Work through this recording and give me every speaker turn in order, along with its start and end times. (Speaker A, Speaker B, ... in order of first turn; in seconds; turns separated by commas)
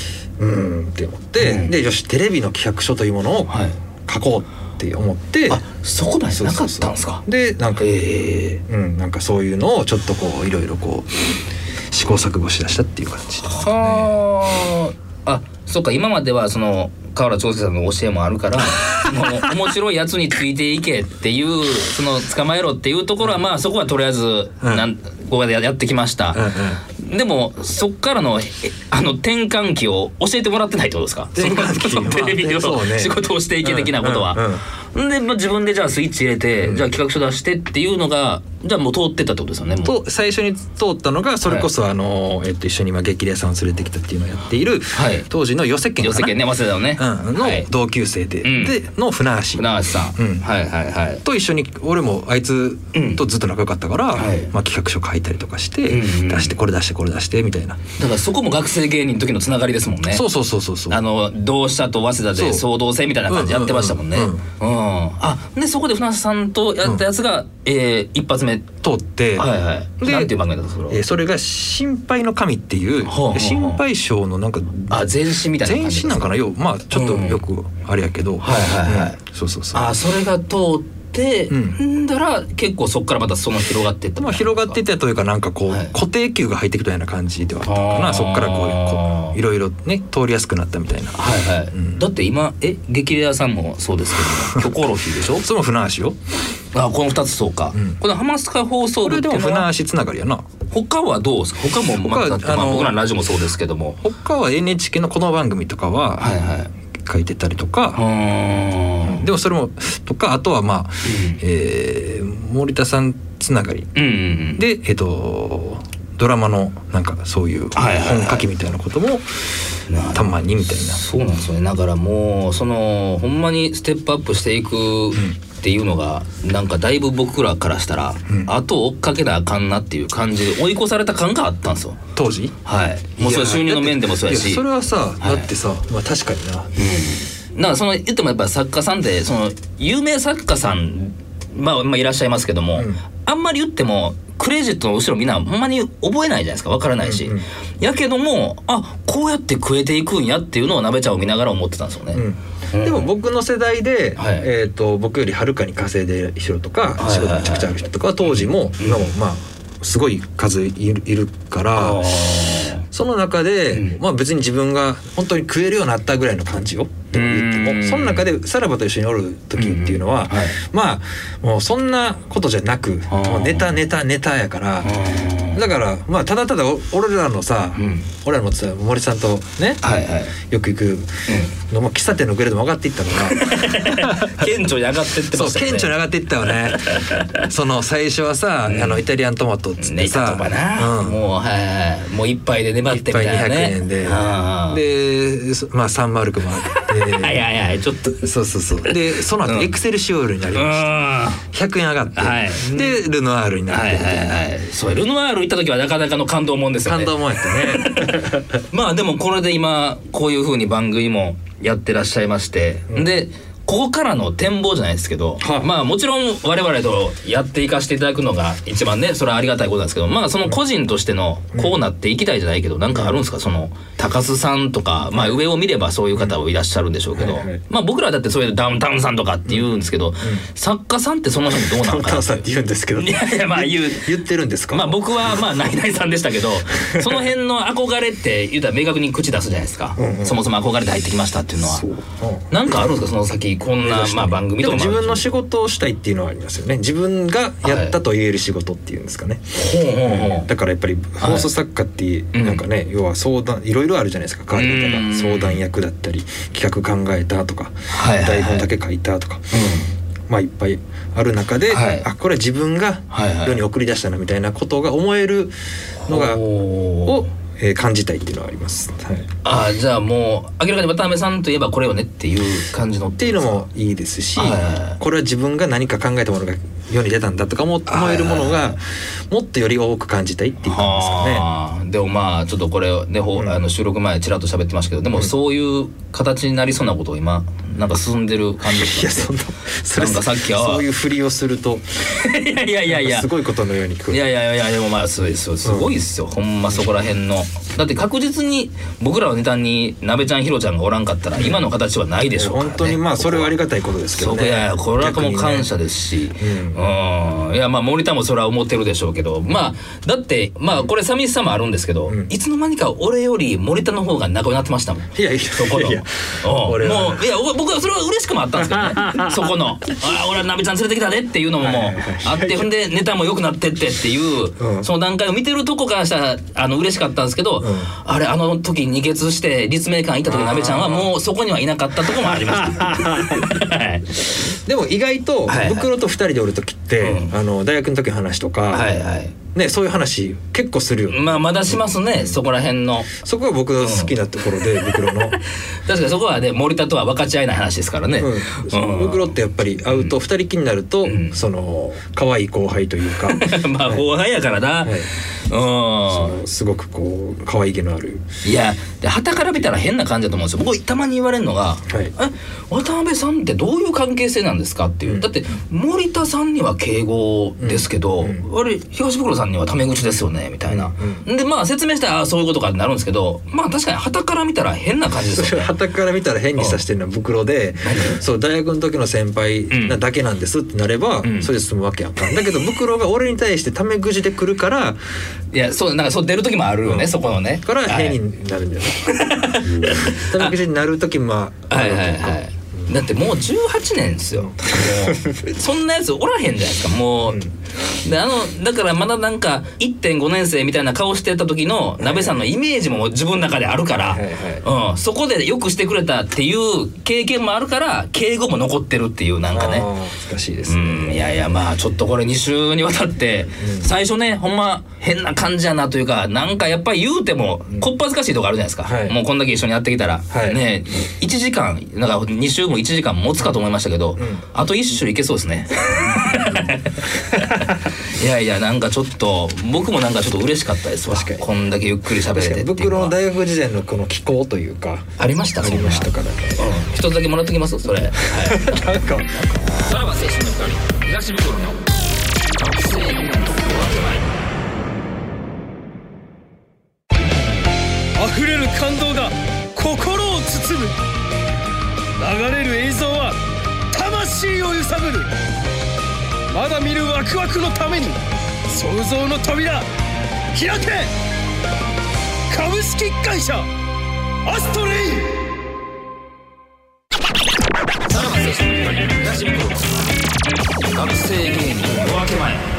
Speaker A: 0.4-3.5, Speaker B: 1.4-1.7, Speaker B: 3.5-3.8, Speaker A: 4.0-5.6, Speaker B: 5.5-7.2, Speaker A: 6.3-7.9, Speaker B: 7.8-8.6, Speaker A: 8.7-11.1, Speaker A: 11.9-14.1, Speaker B: 13.5-39.9, Speaker A: 26.3-26.8, Speaker A: 31.3-34.6, Speaker A: 39.8-46.4, Speaker B: 44.9-45.3, Speaker B: 46.0-47.7, Speaker A: 47.0-50.5, Speaker B: 48.4-48.8, Speaker B: 49.5-51.2, Speaker A: 51.2-57.8, Speaker B: 52.9-53.2, Speaker B: 54.1-54.5, Speaker B: 55.9-56.6, Speaker B: 58.0-60.2, Speaker A: 60.1-61.0, Speaker B: 60.9-68.7, Speaker A: 62.3-62.6, Speaker A: 63.3-64.4, Speaker A: 68.8-69.5, Speaker B: 69.3-71.0, Speaker A: 70.0-70.3, Speaker A: 70.9-75.0, Speaker B: 73.1-73.8, Speaker B: 74.9-76.3, Speaker A: 75.6-79.9, Speaker B: 76.9-77.4, Speaker B: 78.4-79.2, Speaker B: 79.7-84.8, Speaker A: 81.5-81.8, Speaker A: 84.2-91.2, Speaker B: 85.7-85.9, Speaker B: 87.6-89.4, Speaker B: 91.2-95.5, Speaker A: 91.7-92.0, Speaker A: 95.4-96.2, Speaker B: 96.7-99.7, Speaker A: 99.0-100.5, Speaker B: 100.7-104.0, Speaker A: 102.0-103.0, Speaker A: 104.0-106.3, Speaker B: 106.2-106.7, Speaker A: 107.0-108.0, Speaker B: 108.0-109.2, Speaker A: 109.0-113.9, Speaker B: 111.0-111.4, Speaker B: 113.9-114.6, Speaker A: 114.6-119.3, Speaker B: 117.7-118.5, Speaker B: 119.9-132.0, Speaker A: 120.1-121.0, Speaker A: 132.2-132.5, Speaker B: 132.7-134.6, Speaker A: 133.2-136.7, Speaker B: 135.2-135.5, Speaker B: 136.8-153.1, Speaker A: 147.0-147.4, Speaker A: 152.1-162.0, Speaker B: 154.2-154.5, Speaker B: 157.0-157.7, Speaker B: 158.2-159.1, Speaker B: 161.7-162.8, Speaker A: 162.9-174.9, Speaker B: 163.7-164.0, Speaker B: 167.1-168.3, Speaker B: 169.6-170.6, Speaker B: 173.1-173.7, Speaker B: 174.8-175.6, Speaker A: 175.5-179.8, Speaker B: 177.8-178.1, Speaker B: 179.8-180.3, Speaker A: 180.4-184.5, Speaker B: 181.3-181.5, Speaker B: 183.2-187.5, Speaker A: 185.3-191.2, Speaker B: 188.7-189.1, Speaker B: 189.8-194.8, Speaker A: 192.9-197.4, Speaker B: 196.6-198.3, Speaker A: 198.2-200.9, Speaker B: 198.9-199.7, Speaker B: 200.5-201.4, Speaker A: 201.4-204.2, Speaker B: 202.1-203.0, Speaker B: 203.7-232.4, Speaker A: 206.8-208.6, Speaker A: 215.4-215.7, Speaker A: 222.9-223.2, Speaker A: 227.2-227.6, Speaker A: 231.5-235.4, Speaker B: 232.9-234.1, Speaker B: 234.7-241.8, Speaker A: 236.9-237.2, Speaker A: 240.0-240.4, Speaker A: 241.6-242.8, Speaker B: 242.5-245.3, Speaker A: 243.8-249.4, Speaker B: 247.6-248.0, Speaker B: 249.6-250.5, Speaker A: 250.0-259.6, Speaker B: 251.2-251.5, Speaker B: 252.3-252.6, Speaker B: 254.5-255.6, Speaker B: 257.9-258.7, Speaker B: 259.5-259.9, Speaker A: 260.3-265.5, Speaker B: 261.7-262.1, Speaker B: 263.1-263.6, Speaker B: 266.1-267.3, Speaker A: 266.1-266.4, Speaker A: 267.0-269.3, Speaker B: 269.4-273.6, Speaker A: 273.2-281.4, Speaker B: 274.4-275.0, Speaker B: 277.9-278.8, Speaker B: 280.6-289.3, Speaker A: 288.7-291.8, Speaker B: 289.9-290.8, Speaker B: 292.1-293.3, Speaker A: 292.9-294.2, Speaker B: 294.1-303.6, Speaker A: 295.6-295.9, Speaker A: 301.4-301.6, Speaker A: 302.3-305.7, Speaker B: 304.1-334.4, Speaker A: 306.4-306.8, Speaker A: 315.1-317.2, Speaker A: 318.6-319.5, Speaker A: 321.6-322.7, Speaker A: 324.6-324.9, Speaker A: 327.6-327.9, Speaker A: 330.2-331.1, Speaker A: 332.3-333.6, Speaker A: 334.6-338.9, Speaker B: 335.5-335.9, Speaker B: 337.0-337.3, Speaker B: 338.7-339.3, Speaker A: 339.5-341.3, Speaker B: 341.1-343.1, Speaker A: 343.1-345.4, Speaker B: 343.8-344.1, Speaker B: 344.9-345.1, Speaker B: 345.8-349.3, Speaker A: 348.2-354.0, Speaker B: 351.1-351.4, Speaker B: 353.2-356.4, Speaker A: 356.1-358.2, Speaker B: 358.4-375.7, Speaker A: 367.6-368.4, Speaker A: 370.7-371.2, Speaker A: 375.3-385.0, Speaker B: 377.8-378.2, Speaker B: 379.7-380.0, Speaker B: 381.2-381.5, Speaker B: 385.5-388.2, Speaker A: 386.8-392.9, Speaker B: 389.1-390.6, Speaker B: 391.7-397.4, Speaker A: 394.3-395.5, Speaker A: 397.3-397.5, Speaker B: 398.0-409.9, Speaker A: 402.0-402.4, Speaker A: 403.9-404.6, Speaker A: 409.5-411.4, Speaker B: 410.7-433.1, Speaker A: 413.6-413.9, Speaker A: 418.8-419.1, Speaker A: 420.3-420.6, Speaker A: 424.2-424.4, Speaker A: 426.1-426.8, Speaker A: 427.3-427.7, Speaker A: 431.1-431.5, Speaker A: 432.2-436.8, Speaker B: 435.2-438.9, Speaker A: 438.2-439.6, Speaker B: 439.6-441.8, Speaker B: 442.6-444.2, Speaker C: 448.2-450.9, Speaker C: 452.2-453.4, Speaker C: 453.9-455.3, Speaker C: 456.5-459.9, Speaker C: 460.5-461.1, Speaker C: 462.5-463.7, Speaker C: 464.4-465.3, Speaker B: 468.1-470.1, Speaker B: 470.9-472.6